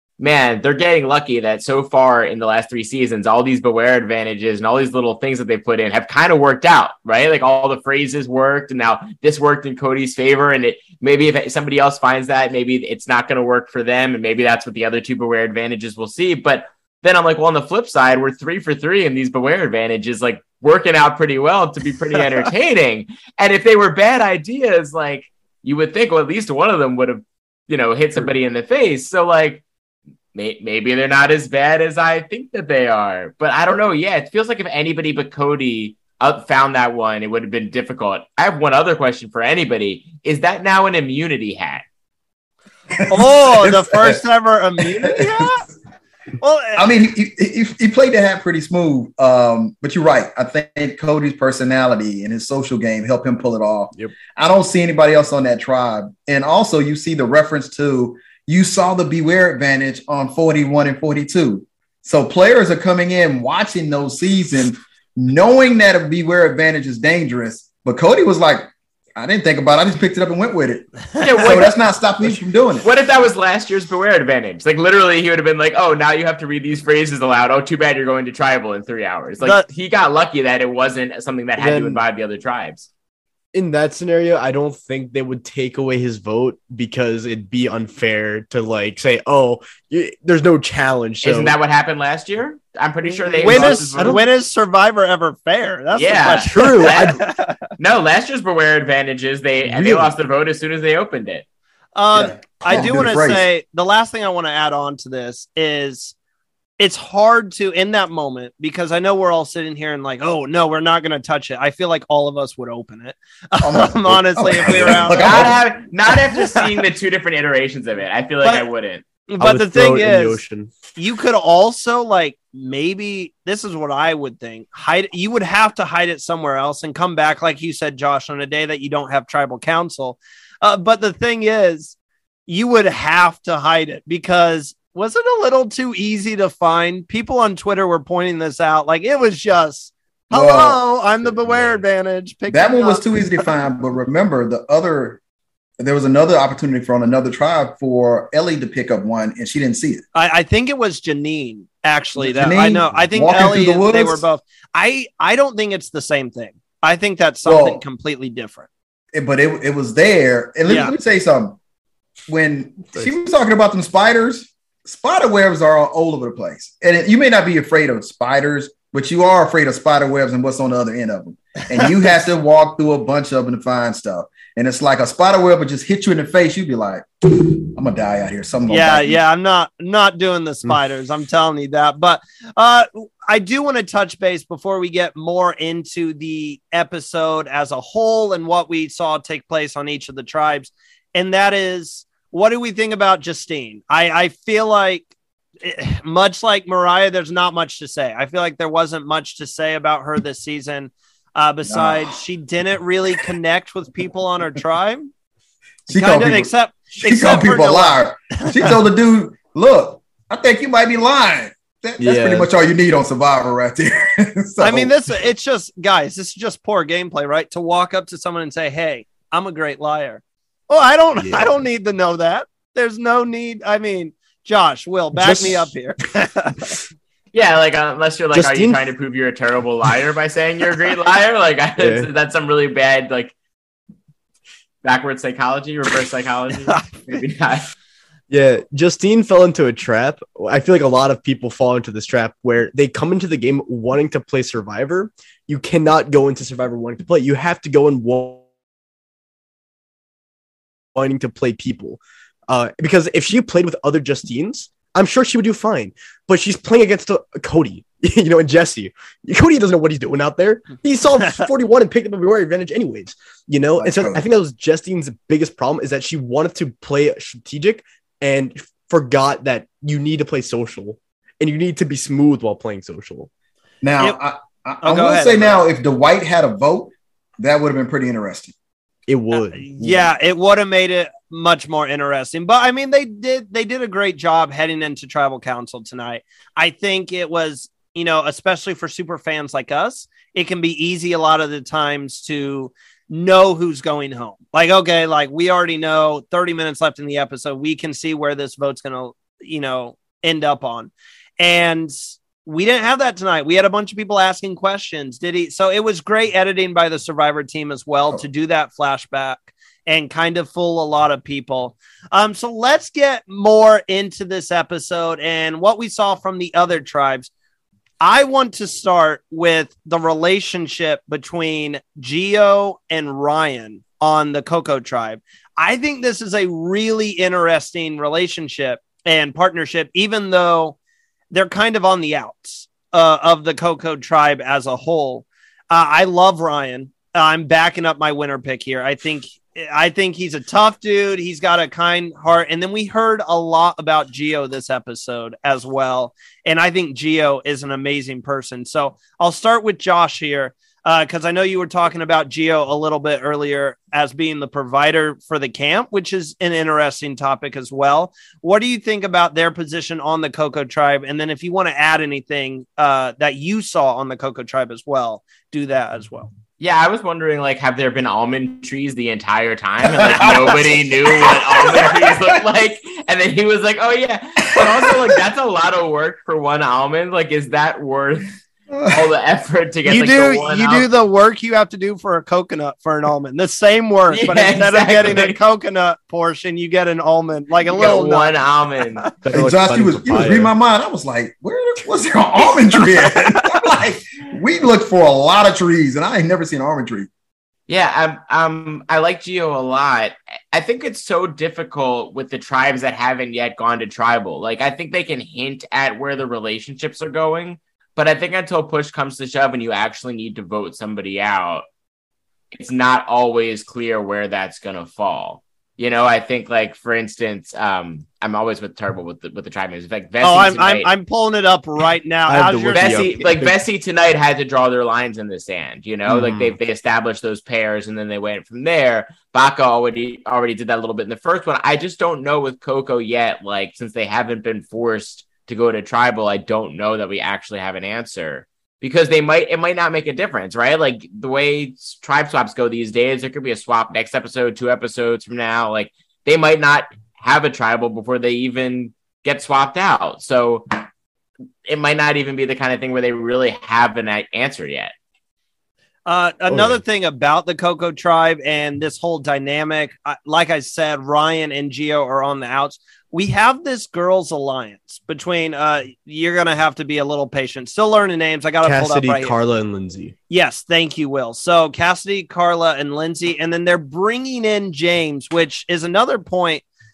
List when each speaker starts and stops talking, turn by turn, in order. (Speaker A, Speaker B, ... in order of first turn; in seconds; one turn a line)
Speaker A: 0.2-29.6
Speaker A: 30.3-41.8
Speaker B: 42.9-44.2
Speaker C: 43.1-45.6
Speaker B: 45.0-45.5
Speaker C: 46.4-46.9
Speaker B: 46.8-72.9
Speaker A: 71.2-71.8
Speaker A: 72.8-82.9
Speaker D: 81.6-82.0
Speaker D: 83.5-91.6
Speaker A: 91.2-94.2
Speaker D: 93.1-94.2
Speaker C: 93.4-97.6
Speaker A: 96.0-97.2
Speaker D: 96.4-97.2
Speaker A: 97.8-101.5
Speaker D: 99.7-100.1
Speaker C: 102.0-106.2
Speaker B: 102.1-103.5
Speaker C: 106.8-115.5
Speaker B: 113.6-115.6
Speaker A: 114.8-119.0
Speaker C: 116.3-116.8
Speaker C: 119.3-120.4
Speaker D: 119.4-120.7
Speaker C: 121.0-131.9
Speaker C: 132.5-143.1
Speaker B: 140.3-140.8
Speaker B: 142.5-145.2
Speaker B: 145.8-150.0
Speaker C: 150.1-158.7
Speaker B: 152.2-154.2
Speaker B: 157.4-157.8
Speaker B: 159.1-161.6
Speaker C: 160.7-160.9
Speaker B: 162.3-179.2
Speaker C: 178.7-195.1
Speaker C: 195.6-205.1
Speaker B: 201.7-202.1
Speaker B: 205.9-214.9
Speaker C: 205.9-208.7
Speaker D: 212.0-212.5
Speaker C: 214.6-226.7
Speaker D: 221.2-221.5
Speaker D: 225.2-225.7
Speaker A: 227.3-233.3
Speaker D: 228.3-228.8
Speaker D: 231.8-232.1
Speaker A: 234.8-237.7
Speaker D: 238.3-248.4
Speaker D: 250.9-273.3
Speaker B: 263.8-264.2
Speaker B: 273.8-278.5
Speaker C: 274.8-275.6
Speaker D: 279.1-280.1
Speaker C: 279.3-317.3
Speaker C: 318.0-330.8
Speaker C: 331.3-366.3
Speaker A: 366.6-378.3
Speaker B: 369.8-372.4
Speaker B: 374.5-375.2
Speaker B: 378.7-379.0
Speaker A: 378.9-380.9
Speaker C: 379.9-388.4
Speaker A: 384.1-385.4
Speaker A: 387.7-389.1
Speaker D: 389.2-390.5
Speaker B: 389.3-397.1
Speaker C: 393.0-393.4
Speaker A: 397.7-411.6
Speaker A: 412.6-420.9
Speaker C: 420.2-423.1
Speaker D: 422.3-423.6
Speaker A: 422.7-450.9
Speaker D: 426.1-426.6
Speaker A: 451.7-454.9
Speaker C: 456.1-469.4
Speaker D: 456.5-456.8
Speaker D: 468.6-470.1
Speaker C: 470.3-476.6